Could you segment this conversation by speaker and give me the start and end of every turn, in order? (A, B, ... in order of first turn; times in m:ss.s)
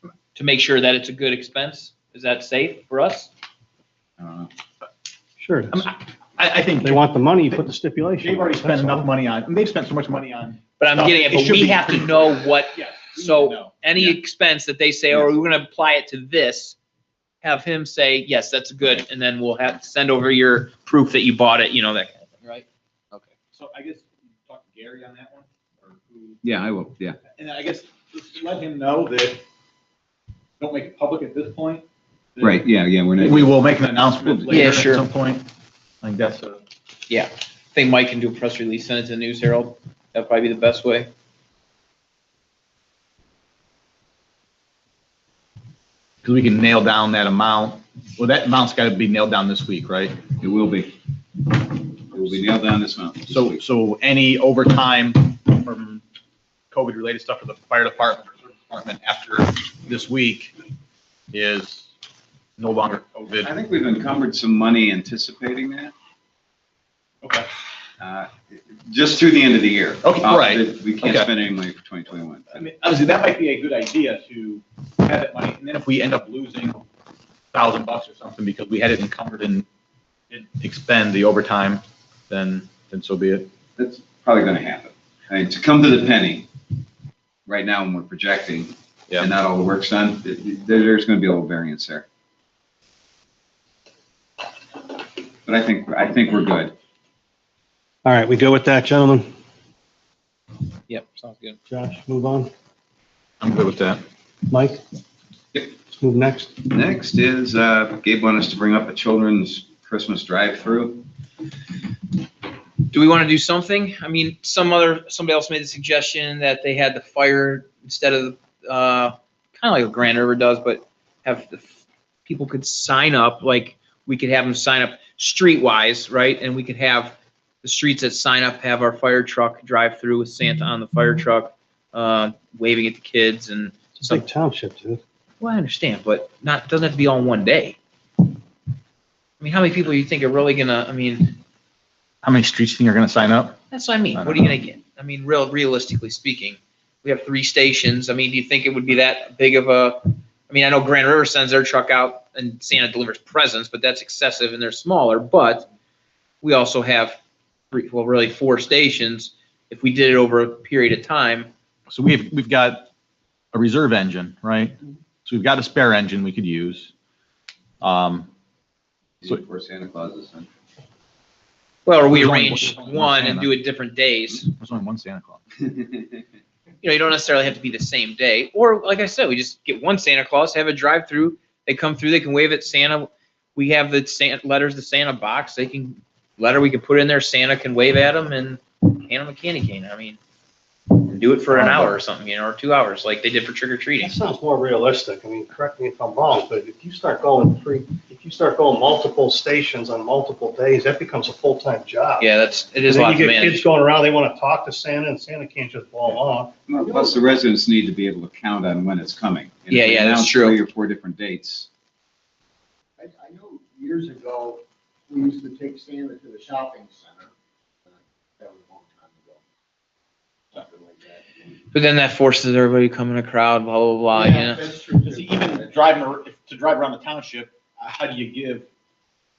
0:00.3-0:03.3 A
0:04.2-0:04.5 B
0:05.4-0:05.9 C
0:05.7-0:07.6 D
0:06.8-0:09.1 C
0:08.2-0:14.2 D
0:10.8-0:16.8 A
0:17.4-0:23.3 A
0:23.5-0:26.4 D
0:26.4-0:27.2 B
0:27.3-0:29.4 D
0:30.6-0:31.8 D
0:32.4-0:32.6 D
0:32.4-0:34.6 B
0:33.2-0:35.4 D
0:34.5-0:35.0 A
0:36.0-0:36.6 D
0:37.1-0:41.1 A
0:46.2-0:50.2 D
0:50.4-0:50.9 B
0:51.4-0:53.6 B
0:53.3-0:56.0 D
0:56.7-1:00.5 D
1:01.3-1:01.8 D
1:02.6-1:03.5 D
1:03.4-1:05.9 B
1:07.2-1:07.5 D
1:08.0-1:12.5 B
1:10.0-1:11.3 D
1:12.5-1:16.8 D
1:17.5-1:19.6 D
1:20.3-1:23.5 D
1:23.8-1:26.5 B
1:27.5-1:32.0 B
1:35.4-1:36.7 B
1:38.0-1:39.3 C
1:40.9-1:41.6 A
1:41.7-1:42.5 C
1:43.4-1:44.0 D
1:44.5-1:44.8 C
1:45.9-1:46.6 C
1:46.7-1:51.0 B
1:52.9-2:14.2 A
2:14.0-2:15.0 C
2:15.4-2:17.8 A
2:19.4-2:21.4 A
2:22.2-2:23.6 D
2:23.7-2:35.7 A
2:24.1-2:24.5 D
2:36.4-2:37.2 A
2:37.7-2:41.5 A
2:41.9-2:42.8 D
2:43.5-2:46.9 D
2:47.8-2:48.3 D
2:49.2-2:50.5 B
2:51.8-2:54.5 A
2:52.1-2:53.5 D
2:54.5-2:55.4 D
2:56.8-3:10.2 A
3:10.9-3:14.1 A
3:11.6-3:11.9 C
3:14.0-3:22.3 C
3:22.2-3:23.6 A
3:22.8-3:26.5 C
3:26.1-3:31.7 B
3:29.7-3:30.6 A
3:33.0-3:37.3 E
3:38.4-3:39.4 E
3:40.5-3:41.2 E
3:41.7-3:44.7 A
3:44.1-3:45.7 E
3:45.0-3:48.6 D